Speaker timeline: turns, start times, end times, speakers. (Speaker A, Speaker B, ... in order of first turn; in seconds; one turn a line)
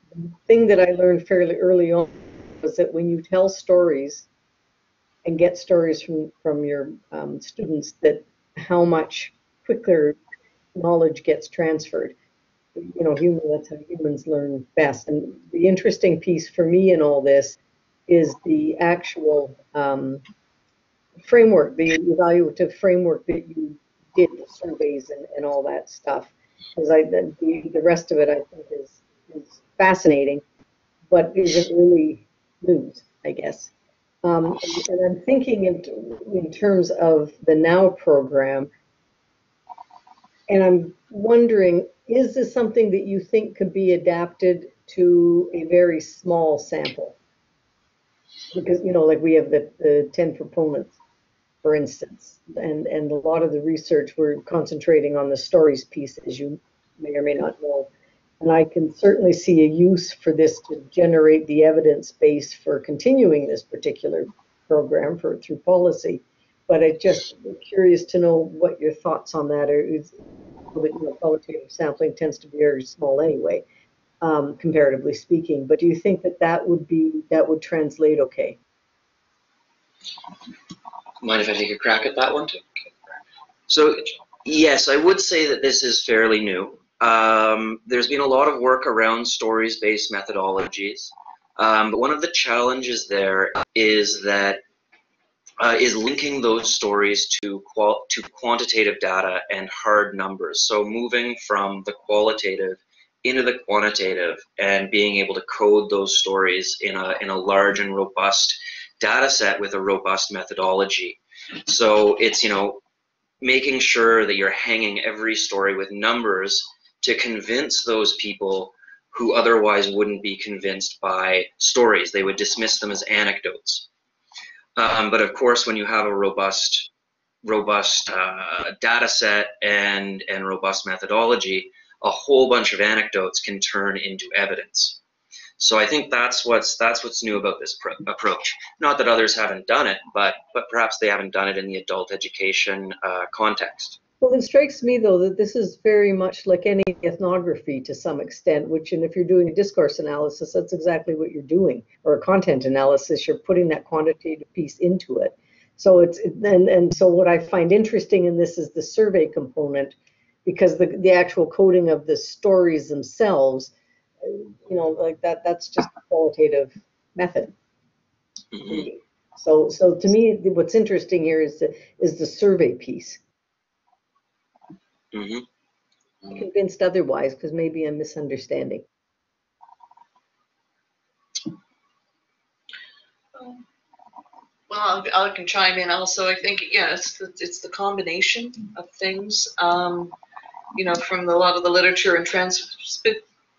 Speaker A: 0.2-4.3
Speaker A: 5.2-10.2
Speaker A: 10.8-12.2
Speaker A: 12.8-17.6
Speaker A: 18.1-20.2
Speaker A: 21.3-30.4
Speaker A: 31.1-33.7
Speaker A: 34.2-38.7
Speaker A: 40.5-47.2
Speaker A: 48.5-51.0
Speaker A: 51.6-57.9
Speaker A: 58.4-70.2
Speaker A: 70.7-73.6
Speaker A: 74.2-78.6
Speaker B: 81.2-82.9
Speaker B: 83.7-94.6
Speaker B: 95.6-112.8
Speaker B: 113.4-123.9
Speaker B: 124.8-126.9
Speaker B: 127.4-135.0
Speaker B: 135.6-144.0
Speaker A: 144.2-163.7
Speaker A: 164.2-167.5
Speaker B: 168.5-168.9
Speaker A: 168.6-173.2
Speaker B: 175.1-175.4
Speaker A: 176.3-178.8
Speaker C: 183.3-183.6
Speaker C: 184.7-190.2
Speaker C: 190.8-193.2